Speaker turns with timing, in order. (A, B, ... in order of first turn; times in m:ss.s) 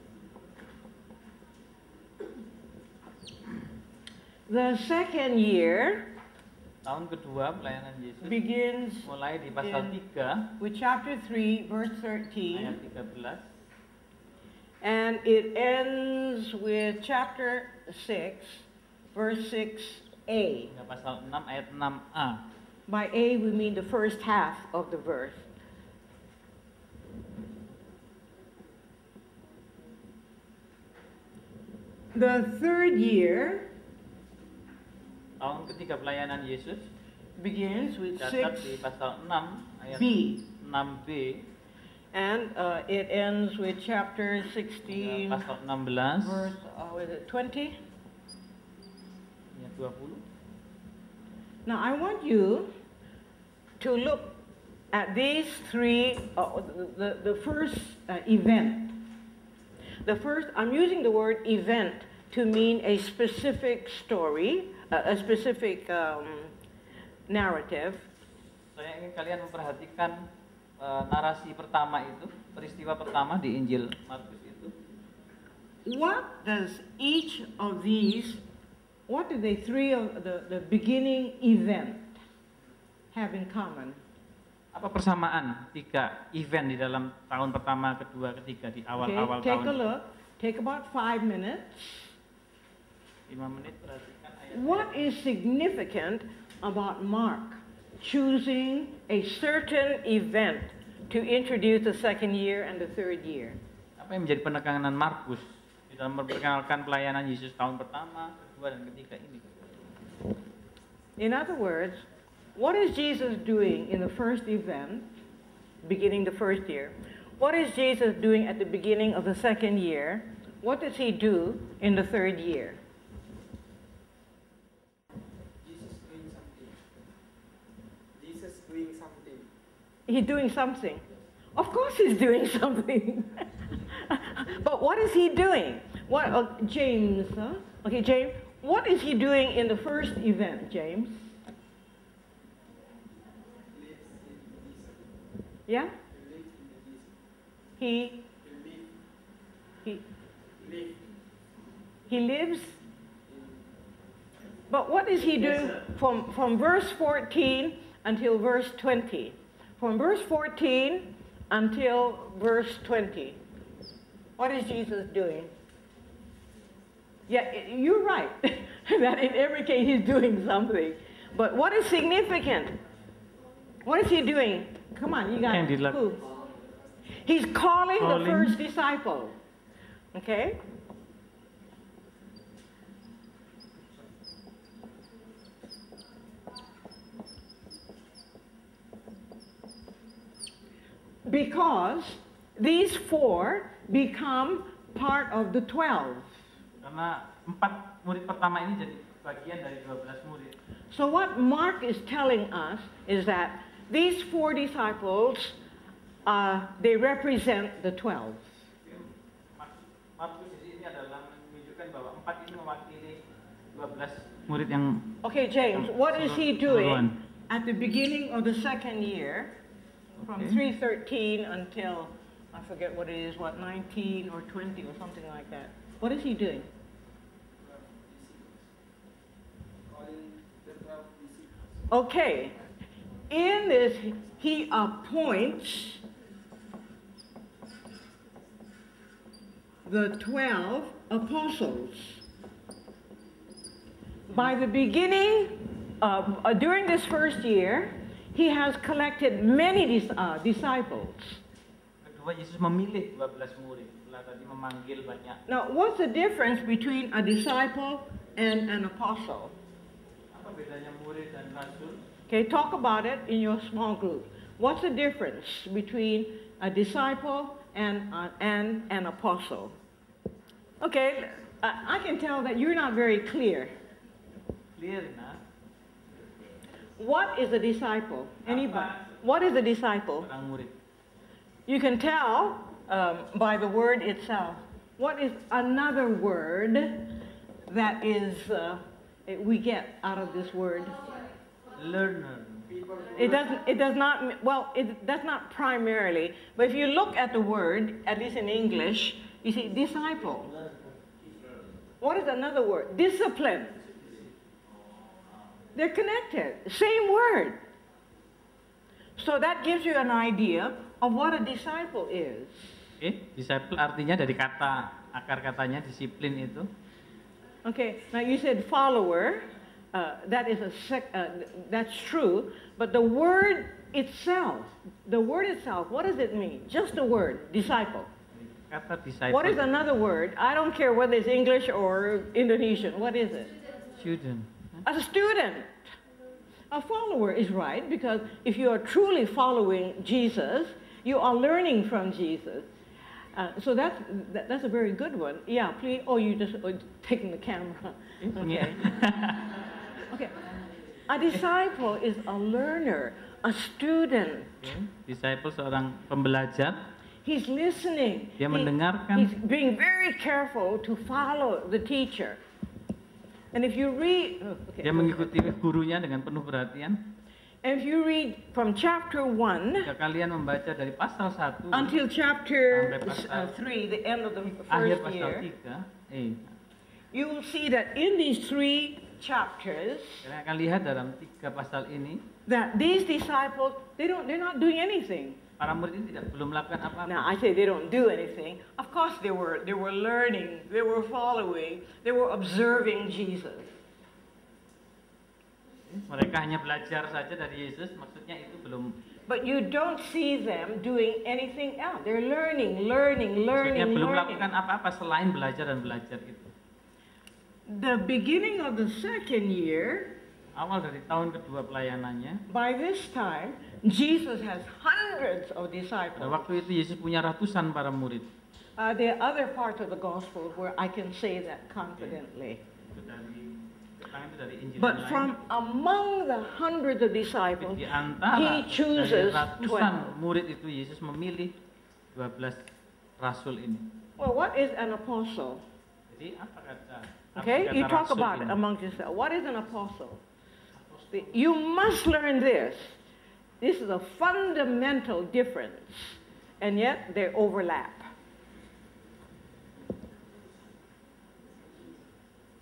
0:04.5-0:06.2 A
0:06.8-0:08.4 B
0:08.2-0:09.9 A
0:09.0-0:10.5 B
0:10.6-0:12.8 A
0:12.5-0:13.4 B
0:14.8-0:20.7 A
0:20.7-0:22.5 B
0:22.9-0:25.4 A
0:32.1-0:33.7 A
0:35.4-0:36.9 B
0:37.4-0:38.8 A
0:38.2-0:41.5 B
0:39.9-0:40.5 A
0:42.1-0:45.5 A
0:44.9-0:46.5 B
0:46.2-0:47.8 A
0:49.5-0:50.2 B
0:51.6-0:52.7 A
0:53.8-0:59.0 A
1:00.0-1:06.5 A
1:07.3-1:08.1 A
1:08.7-1:10.2 B
1:10.8-1:14.7 B
1:15.8-1:18.4 A
1:19.1-1:22.2 A
1:23.1-1:24.0 A
1:24.7-1:29.8 B
1:29.0-1:32.1 A
1:33.3-1:35.1 B
1:34.5-1:43.6 A
1:44.0-1:49.6 B
1:51.2-1:52.0 A
1:52.6-1:55.2 A
1:55.8-2:02.8 A
2:05.6-2:06.8 C
2:08.2-2:09.5 C
2:10.1-2:21.3 A
2:13.7-2:14.0 C
2:23.6-2:25.1 C
2:25.7-2:25.9 A
2:26.1-2:27.2 C
2:27.8-2:28.3 A
2:28.4-2:28.9 C
2:30.6-2:31.1 C
2:32.1-2:32.8 A
2:33.3-2:33.7 C
2:34.7-2:43.4 A
2:35.3-2:35.7 C
2:44.4-2:45.5 A
2:47.3-2:52.8 A
2:53.8-2:56.2 A
2:55.4-2:56.0 B
2:57.2-2:59.3 A
2:58.0-2:58.6 B
3:00.1-3:00.6 A
3:11.2-3:16.3 A
3:16.8-3:20.6 B
3:20.9-3:25.6 A
3:26.2-3:28.5 A
3:28.8-3:35.2 B
3:35.2-3:39.6 A
3:35.7-3:37.2 B
3:40.2-3:40.6 B
3:40.2-3:46.7 A
3:47.6-3:48.7 C
3:49.8-3:51.9 C
3:51.9-3:52.5 A
3:53.3-3:56.0 A
3:59.8-4:02.2 A
4:04.3-4:11.4 A
4:04.3-4:04.6 B
4:12.0-4:15.4 B
4:15.5-4:19.5 A
4:20.3-4:22.0 B
4:22.3-4:29.7 A
4:30.8-4:33.7 A
4:34.8-4:35.4 B
4:37.0-4:40.3 A
4:38.4-4:39.2 B
4:40.2-4:40.8 B
4:41.7-4:51.2 A
4:51.7-4:52.7 B
4:52.7-4:53.5 C
4:53.2-5:00.5 A
5:01.2-5:01.5 C
5:02.0-5:03.8 A
5:03.9-5:04.3 C
5:05.7-5:07.6 A
5:09.2-5:12.8 A
5:13.0-5:16.7 B
5:17.6-5:28.1 A
5:28.3-5:29.6 B
5:29.3-5:33.5 A
5:34.0-5:34.8 B
5:34.8-5:35.8 A
5:36.7-5:42.7 A
5:43.3-5:48.9 A
5:48.2-5:49.6 B
5:50.1-5:50.4 A
5:51.1-5:54.6 A
5:54.6-5:56.8 B
5:57.2-6:02.4 A
5:58.4-5:59.3 B
6:03.5-6:05.5 A
6:04.8-6:07.1 B
6:07.6-6:09.9 A
6:09.8-6:12.0 B
6:11.7-6:15.5 A
6:12.7-6:13.5 B
6:14.4-6:16.5 B
6:17.1-6:20.2 A
6:20.2-6:22.3 B
6:22.5-6:25.4 A
6:25.6-6:27.3 B
6:27.0-6:33.7 A
6:35.9-6:39.0 B
6:39.3-6:44.5 A
6:43.5-6:46.5 B
6:47.7-6:50.2 A
6:50.5-6:52.4 B
6:52.5-6:56.5 A
6:56.2-6:58.3 B
6:58.8-7:02.6 A
7:02.9-7:05.3 B
7:04.8-7:10.1 A
7:07.6-7:11.6 B
7:12.1-7:12.7 B
7:13.2-7:13.9 B
7:14.2-7:15.6 A
7:16.1-7:18.6 B
7:17.3-7:20.2 A
7:20.7-7:21.4 B
7:21.1-7:23.0 A
7:23.6-7:28.1 A